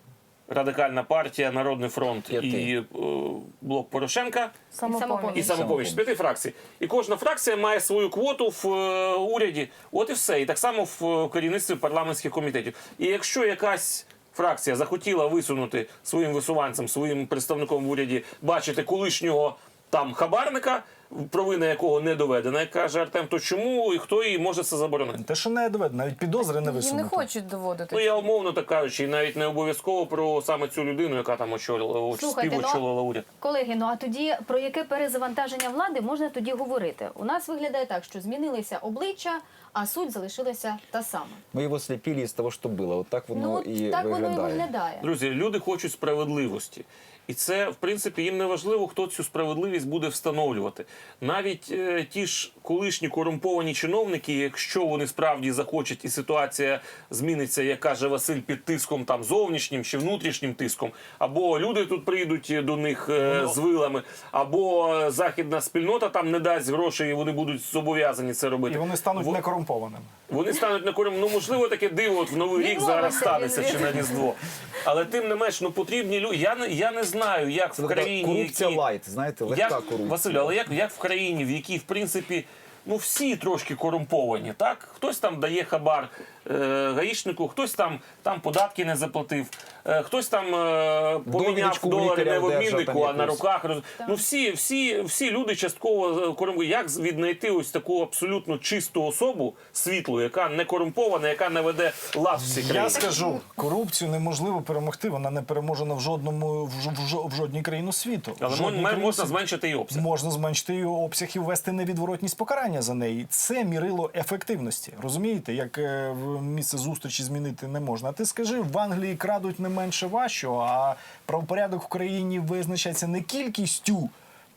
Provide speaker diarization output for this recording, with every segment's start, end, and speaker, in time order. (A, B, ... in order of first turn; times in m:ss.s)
0:00.5-0:04.5 A
0:02.3-0:02.7 B
0:04.7-0:05.6 C
0:04.8-0:05.5 D
0:05.3-0:25.2 A
0:05.4-0:06.0 B
0:25.2-0:27.3 E
0:26.6-0:28.3 C
0:27.9-0:33.2 A
0:32.2-0:32.8 D
0:33.4-0:41.4 D
0:41.5-0:44.7 B
0:43.3-0:45.1 D
0:45.0-1:09.4 A
1:03.2-1:03.6 E
1:08.7-1:10.1 E
1:10.3-1:18.8 A
1:12.6-1:14.0 C
1:12.7-1:14.0 D
1:17.8-1:20.7 B
1:19.5-1:43.2 A
1:31.3-1:33.4 B
1:42.4-1:49.4 E
1:48.4-1:50.1 A
1:49.9-2:04.1 E